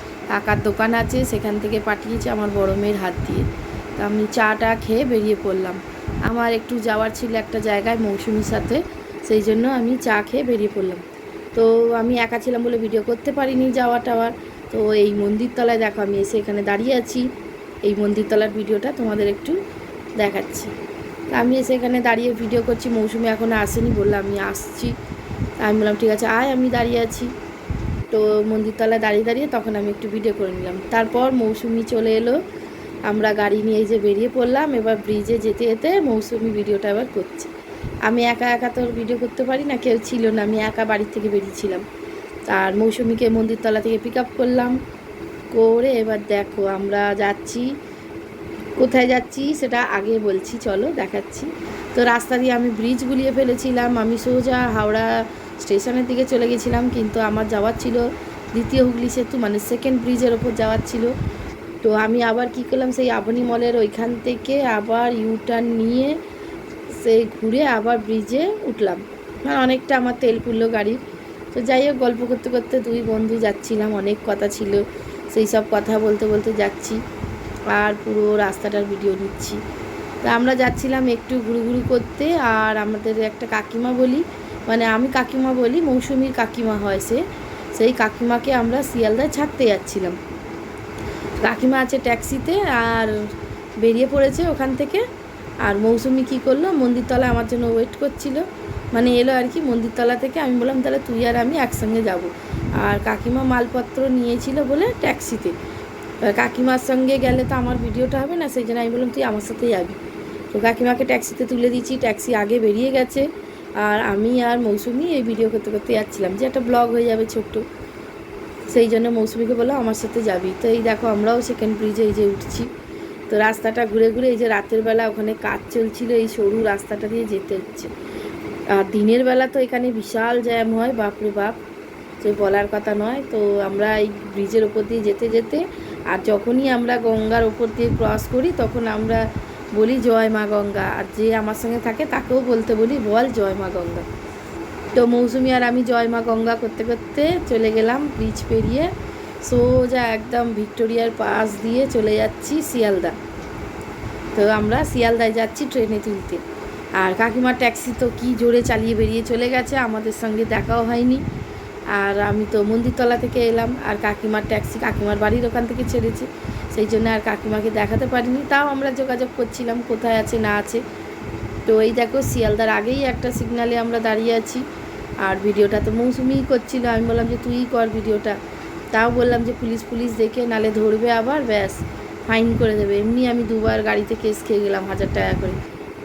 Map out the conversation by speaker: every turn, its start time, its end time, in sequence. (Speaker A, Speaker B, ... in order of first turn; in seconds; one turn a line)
Speaker A: 0.3-17.3
Speaker A: 17.8-19.6
Speaker A: 20.2-20.7
Speaker A: 21.3-25.0
Speaker A: 25.6-27.3
Speaker A: 28.1-32.4
Speaker A: 33.1-37.5
Speaker A: 38.0-41.8
Speaker A: 42.5-44.8
Speaker A: 45.5-47.7
Speaker A: 48.8-61.1
Speaker A: 61.8-66.2
Speaker A: 66.9-71.0
Speaker A: 71.5-77.0
Speaker A: 77.7-79.6
Speaker A: 80.2-87.2
Speaker A: 87.8-90.2
Speaker A: 91.4-95.0
Speaker A: 95.6-105.5
Speaker A: 106.2-110.0
Speaker A: 110.5-113.3
Speaker A: 113.8-117.7
Speaker A: 118.7-122.7
Speaker A: 123.3-127.9
Speaker A: 128.7-131.6
Speaker A: 132.2-144.1
Speaker A: 145.0-153.2
Speaker A: 154.3-156.4
Speaker A: 157.0-161.2
Speaker A: 161.9-170.8
Speaker A: 171.7-174.6
Speaker A: 175.2-178.4
Speaker A: 178.9-185.6